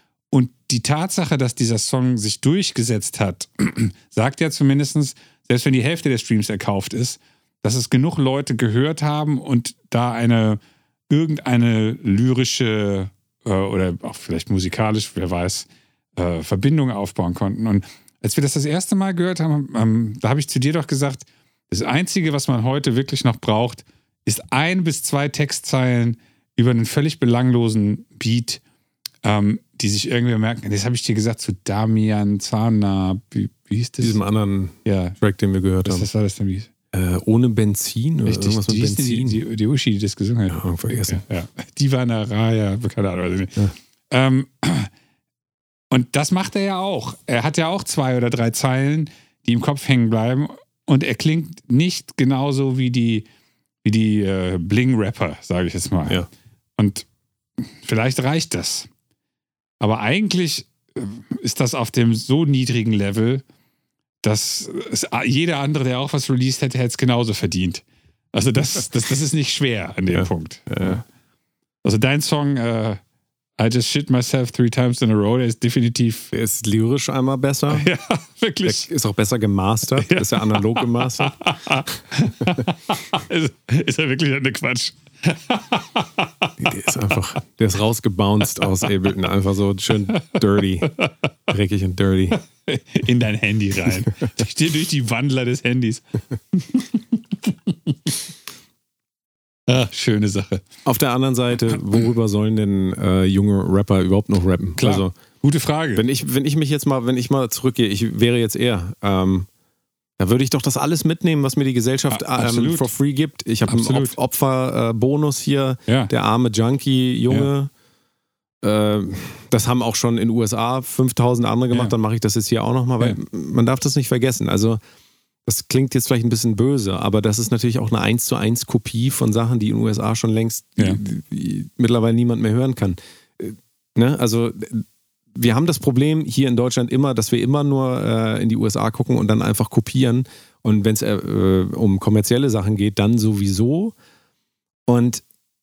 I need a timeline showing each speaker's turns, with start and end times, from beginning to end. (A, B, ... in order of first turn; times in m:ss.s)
0:00.3-0:28.6 A
0:29.2-0:34.2 A
0:34.0-0:36.1 B
0:34.8-0:35.2 A
0:35.8-0:36.7 A
0:36.9-0:39.4 B
0:38.2-0:43.6 A
0:40.5-0:41.2 B
0:44.1-0:44.9 A
0:45.9-0:53.3 A
0:53.8-0:56.2 A
0:56.8-0:57.1 A
0:57.6-0:58.9 A
0:59.8-1:03.4 A
1:04.2-1:11.0 A
1:10.1-1:11.0 B
1:11.8-1:13.0 A
1:13.6-1:16.3 A
1:16.3-1:17.9 B
1:17.7-1:18.9 A
1:18.6-1:21.3 B
1:20.0-1:26.8 A
1:26.6-1:30.9 B
1:28.6-1:28.9 A
1:30.1-1:31.1 A
1:31.5-1:32.4 B
1:32.4-1:38.0 A
1:39.7-1:40.6 A
1:40.8-1:45.2 B
1:44.8-1:46.0 A
1:46.0-1:49.5 B
1:50.2-1:57.7 B
1:52.1-1:52.9 A
1:53.7-1:54.1 A
1:58.6-2:04.8 B
2:05.5-2:24.0 B
2:24.9-2:25.2 B